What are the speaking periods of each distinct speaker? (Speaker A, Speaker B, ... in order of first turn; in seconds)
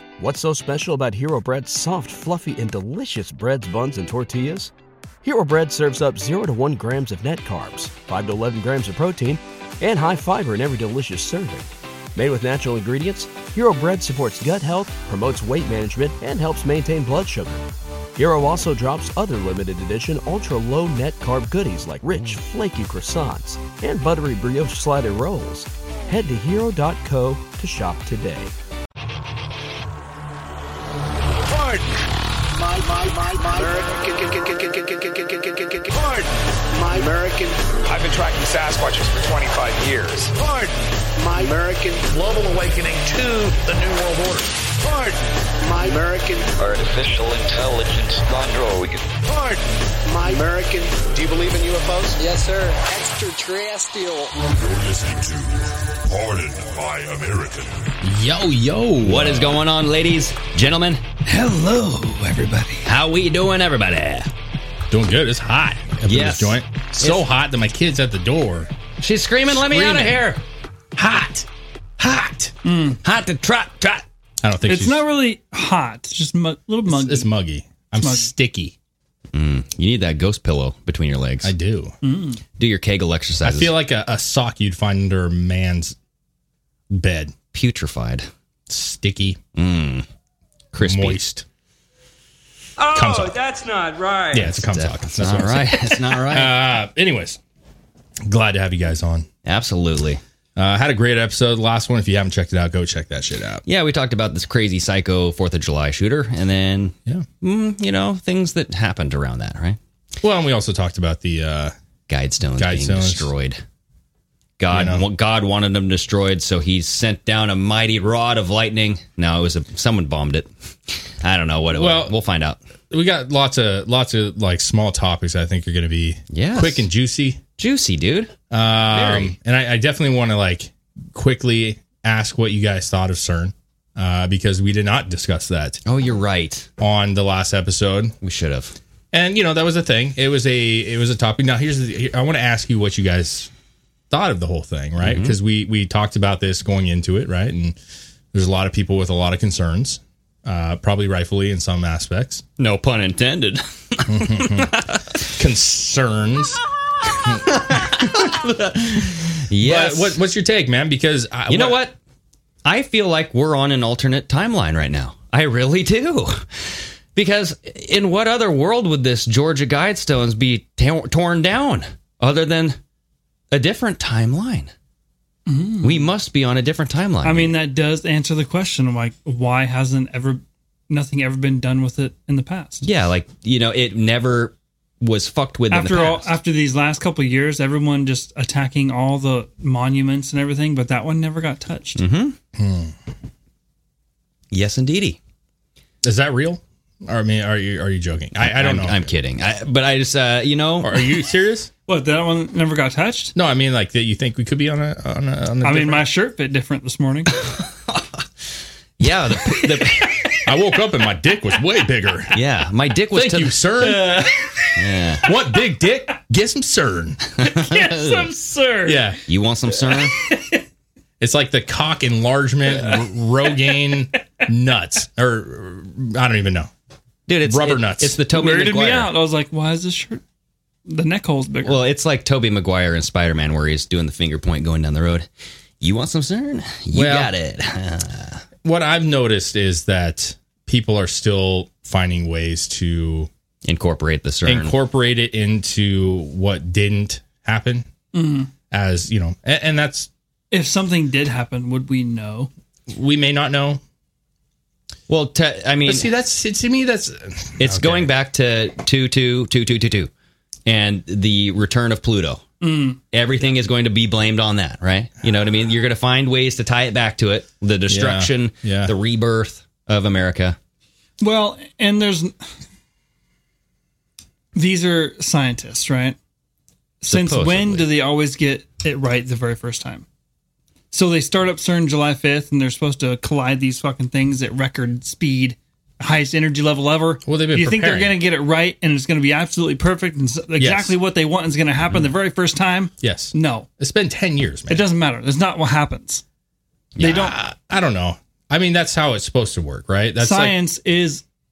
Speaker A: 0.2-4.7, 5.2-17.6, 18.2-28.5
Speaker B: 32.5-37.6, 40.4-42.0, 44.8-46.5, 49.3-51.0, 52.2-54.2
Speaker C: 37.9-40.4, 42.1-44.6, 46.6-49.1, 51.1-52.2
Speaker D: 54.4-57.9
Speaker E: 58.0-59.6, 64.9-68.7, 69.5-70.3, 71.0-71.5, 72.0-72.5, 74.4-75.0, 76.9-78.7, 81.4-81.9, 83.4-86.0, 86.9-87.3, 88.7-89.4, 90.8-91.4, 92.9-93.4, 94.3-97.4, 98.2-99.3, 100.5-103.6, 110.2-111.7, 112.6-113.3, 114.7-115.0, 121.7-122.1, 122.9-127.4, 128.5-135.8, 136.8-138.2, 139.1-143.5, 144.1-147.8, 148.3-152.4, 154.1-156.6, 157.2-158.2, 159.6-161.9, 192.6-192.9, 196.0-199.1, 200.8-201.7, 203.3-206.1, 210.4-212.4, 213.1-214.5, 215.2-217.2, 218.8-219.2, 221.2-226.7, 227.4-228.2, 236.9-237.3, 238.6-243.3, 244.4-247.9, 248.7-250.1, 252.9-253.8, 255.8-258.1, 267.9-268.9, 287.2-288.1, 290.6-290.9, 293.0-294.8, 297.0-300.5
Speaker F: 59.0-61.2, 62.8-64.3, 66.1-67.2, 69.0-70.4, 73.0-74.0, 79.3-81.5, 82.6-83.7, 87.5-88.3, 89.5-90.1, 90.7-91.2, 94.3-96.6, 99.4-100.2, 103.7-109.8, 112.1-113.6, 114.6-122.6, 126.3-126.9, 127.6-128.3, 128.9-129.3, 135.8-136.7, 138.2-138.8, 145.0-145.4, 152.6-155.2, 157.1-160.2, 161.5-161.9, 162.6-172.8, 173.5-174.7, 175.8-177.5, 182.8-186.3, 191.9-192.4, 194.5-195.2, 198.4-201.1, 209.0-210.2, 212.3-213.7, 214.7-215.3, 217.4-218.3, 219.3-220.1, 227.3-229.1, 231.6-235.3, 235.8-238.4, 243.6-244.7, 255.1-256.1, 257.6-260.1, 260.6-262.4, 263.1-270.6, 277.1-277.9
Speaker G: 61.3-62.7, 72.6-73.0, 74.7-77.3, 78.0-78.3, 82.0-82.4, 175.4-176.1, 177.2-182.8, 185.7-192.0, 201.9-203.3, 205.6-207.3, 213.9-214.3, 217.4-219.1, 219.7-220.6, 228.3-230.2, 230.8-231.8, 248.1-248.5, 250.5-252.5, 262.6-263.0, 271.2-272.3, 274.5-276.1, 277.0-280.1, 280.9-293.7, 294.7-296.2, 297.0-297.3, 300.2-301.2